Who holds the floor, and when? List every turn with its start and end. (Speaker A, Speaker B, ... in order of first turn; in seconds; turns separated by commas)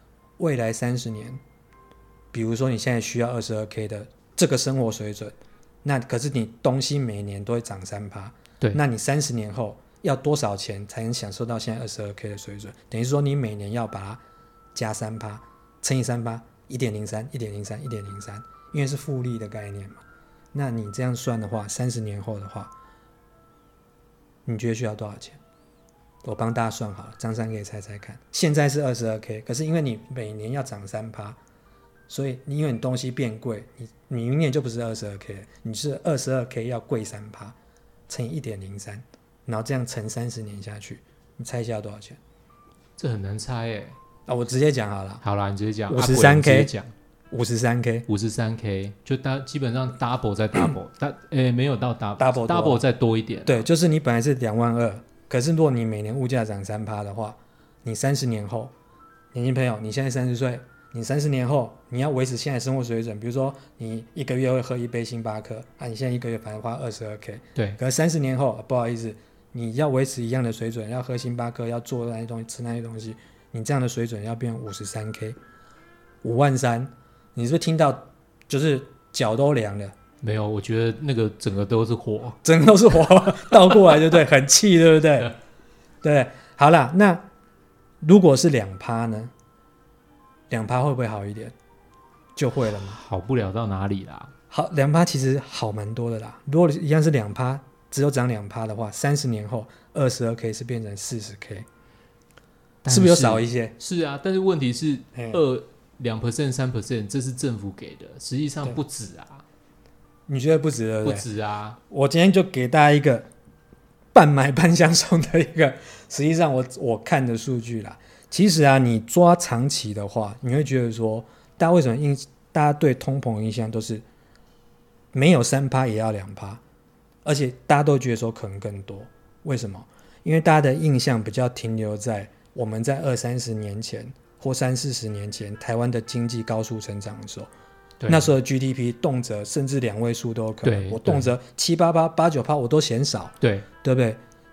Speaker A: 0.4-1.4, Speaker A: 2.3-14.2, Speaker A: 14.7-20.0, Speaker A: 20.5-22.7, Speaker A: 24.4-25.4, Speaker A: 26.2-31.4, Speaker A: 32.1-37.5, Speaker A: 38.1-42.2, Speaker B: 43.0-44.0, Speaker A: 44.3-45.2, Speaker B: 45.2-46.9, Speaker A: 45.9-46.7, Speaker A: 47.3-48.1, Speaker B: 48.1-53.7, Speaker A: 52.2-52.8, Speaker A: 53.5-58.7, Speaker A: 59.3-75.4, Speaker A: 76.2-79.9, Speaker B: 80.2-82.4, Speaker A: 82.4-85.3, Speaker B: 83.6-84.0, Speaker A: 86.0-87.2, Speaker A: 88.0-89.3, Speaker A: 90.5-91.5, Speaker A: 92.3-93.0, Speaker B: 92.7-94.3, Speaker A: 94.5-101.7, Speaker B: 102.8-109.4, Speaker A: 102.9-103.8, Speaker A: 105.1-105.4, Speaker A: 110.3-111.2, Speaker B: 111.0-111.8, Speaker A: 111.9-113.3, Speaker A: 114.1-124.0, Speaker A: 125.1-126.6, Speaker A: 127.2-137.5, Speaker B: 138.0-138.3, Speaker A: 138.1-144.2, Speaker B: 140.6-141.3, Speaker B: 143.4-143.7